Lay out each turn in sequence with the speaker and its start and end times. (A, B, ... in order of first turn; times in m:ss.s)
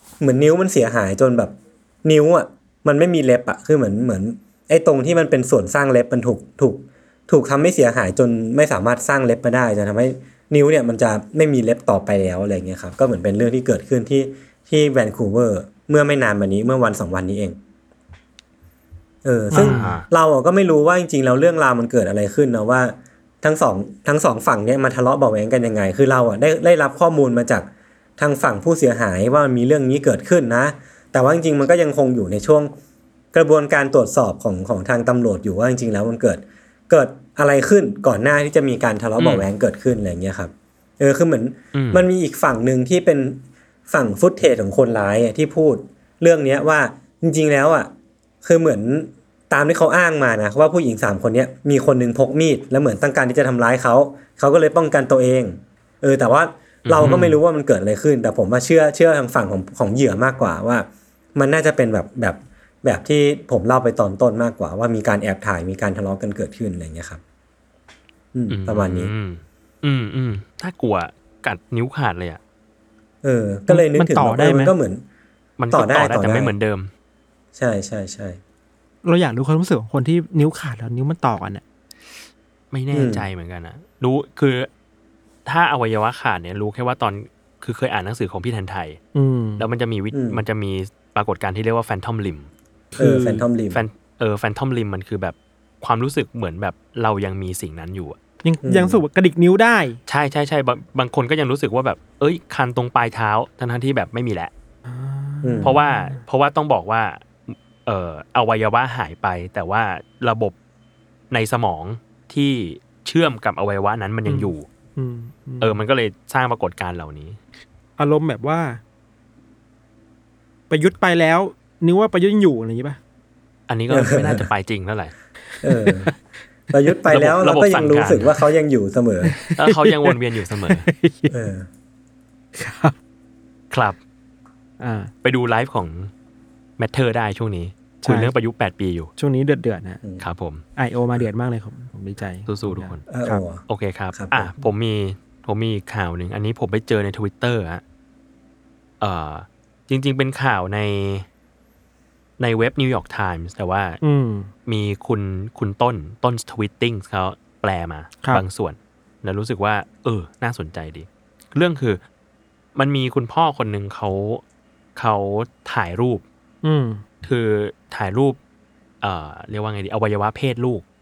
0:00.2-0:17.6 A
0:19.2-0:27.7 A
0:19.5-0:20.0 B
0:19.5-0:20.1 C
0:28.2-0:32.7 A
0:33.3-0:47.9 A
0:39.2-0:39.5 C
0:41.8-0:42.0 C
0:48.4-1:07.2 A
0:56.9-0:57.4 C
1:08.3-1:09.1 A
1:08.5-1:12.4 C
1:13.2-1:15.0 A
1:13.7-1:14.7 B
1:15.6-1:16.9 C
1:15.7-1:16.5 A
1:17.6-1:18.4 A
1:19.0-1:21.6 B
1:22.7-1:24.7 C
1:22.9-1:23.2 A
1:25.5-1:29.0 C
1:29.1-1:29.6 B
1:29.6-1:32.5 C
1:30.1-1:30.4 A
1:32.9-1:33.5 B
1:33.0-1:33.8 A
1:33.7-1:38.2 C
1:38.4-1:40.0 B
1:38.6-1:39.0 A
1:40.1-1:44.5 C
1:44.9-1:46.2 B
1:45.4-1:45.7 A
1:45.6-1:50.6 C
1:51.3-1:54.7 C
1:54.3-1:55.8 B
1:55.6-1:57.4 C
1:58.0-1:58.8 B
2:00.7-2:03.0 B
2:03.7-2:05.1 C
2:03.9-2:04.5 A
2:05.6-2:06.1 B
2:05.6-2:06.1 A
2:06.7-2:09.4 A
2:07.1-2:08.4 C
2:09.2-2:10.2 B
2:09.6-2:10.9 C
2:10.7-2:11.3 B
2:11.3-2:11.7 A
2:12.6-2:12.9 B
2:13.7-2:14.0 C
2:14.8-2:15.1 B
2:15.2-2:16.1 C
2:16.8-2:19.1 C
2:18.0-2:18.3 B
2:19.2-2:20.0 B
2:20.2-2:20.6 C
2:20.8-2:23.4 B
2:22.5-2:23.1 C
2:23.1-2:24.5 A
2:23.7-2:27.8 C
2:29.0-2:31.3 C
2:32.4-2:34.0 C
2:34.0-2:34.5 B
2:34.7-2:42.0 C
2:42.8-2:44.4 C
2:45.0-2:46.2 C
2:46.6-2:47.0 B
2:47.2-2:48.4 C
2:49.0-2:50.8 C